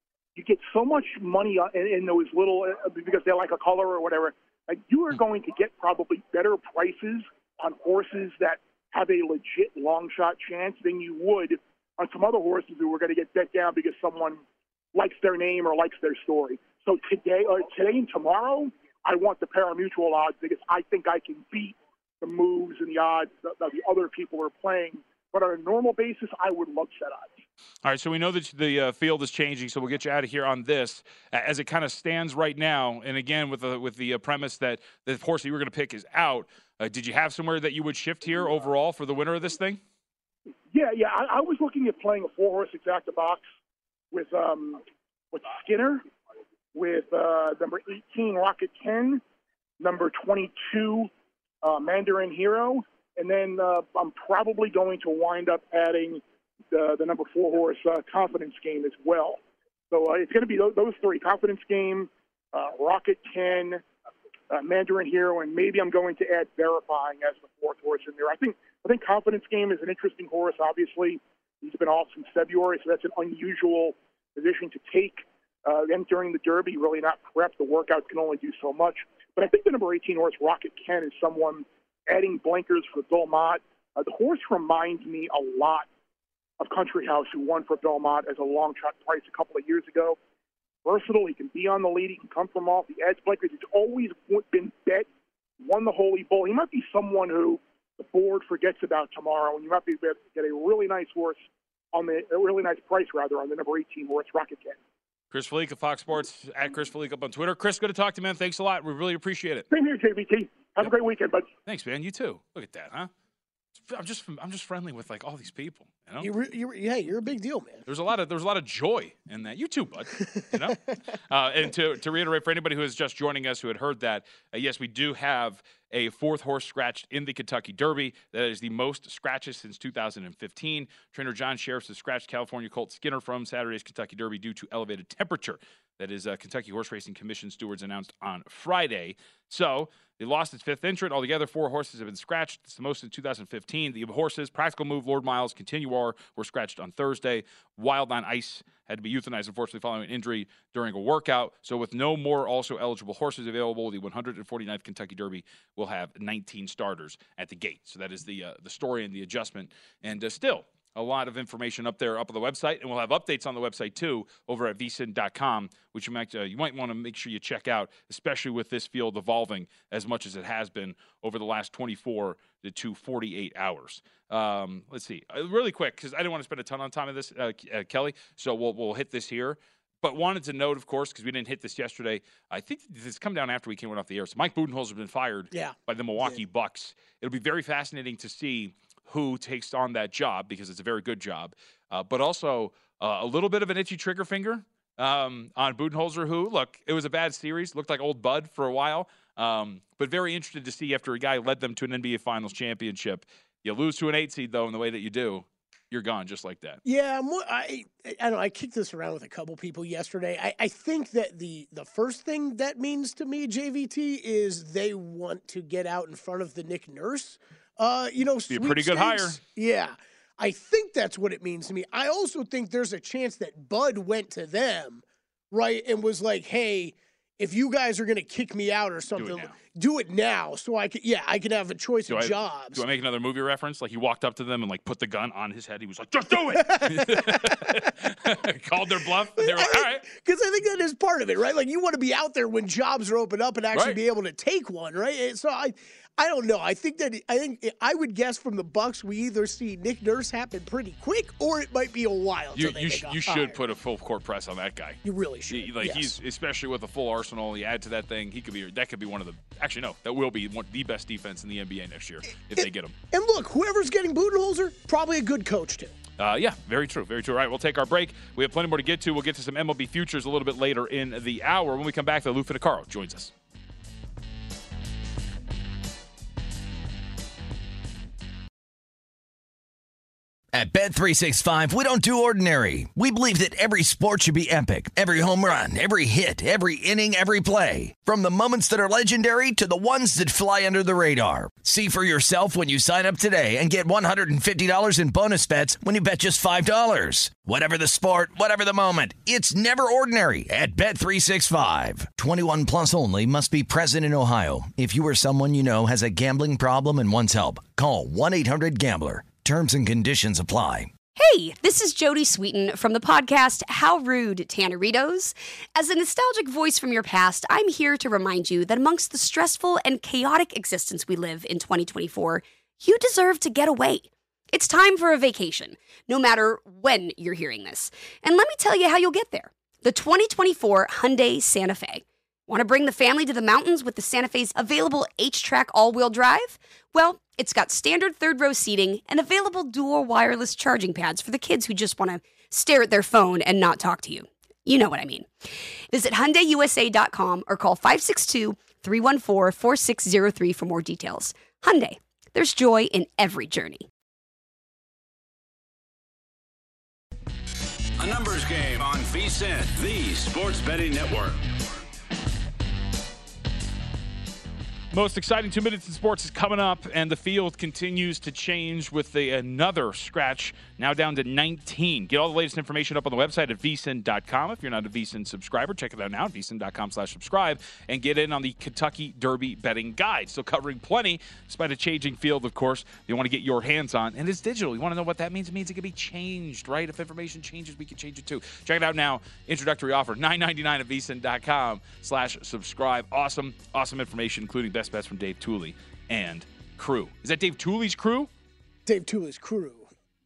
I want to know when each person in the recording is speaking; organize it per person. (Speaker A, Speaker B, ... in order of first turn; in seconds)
Speaker A: 0.4-14.4, 14.9-27.3, 40.7-43.4, 44.1-46.0, 46.7-49.2, 49.8-51.1, 51.6-59.4, 59.9-63.8, 64.5-85.9, 86.6-90.2, 90.8-95.1, 95.6-101.4, 101.9-104.8, 109.7-111.5
Speaker B: 27.8-39.8, 105.3-109.7, 111.7-113.1, 113.8-116.3, 117.9-206.8, 218.5-219.4, 229.2-229.6, 232.1-240.1, 243.7-244.0, 252.5-262.9, 266.2-273.3, 364.9-398.3
Speaker C: 116.2-117.8, 120.2-120.7, 185.5-186.4, 206.8-232.8, 236.5-237.9, 239.4-253.6, 255.0-256.1, 262.6-265.9, 398.9-399.9
Speaker D: 280.5-310.9
Speaker E: 311.2-353.9
Speaker F: 358.0-361.8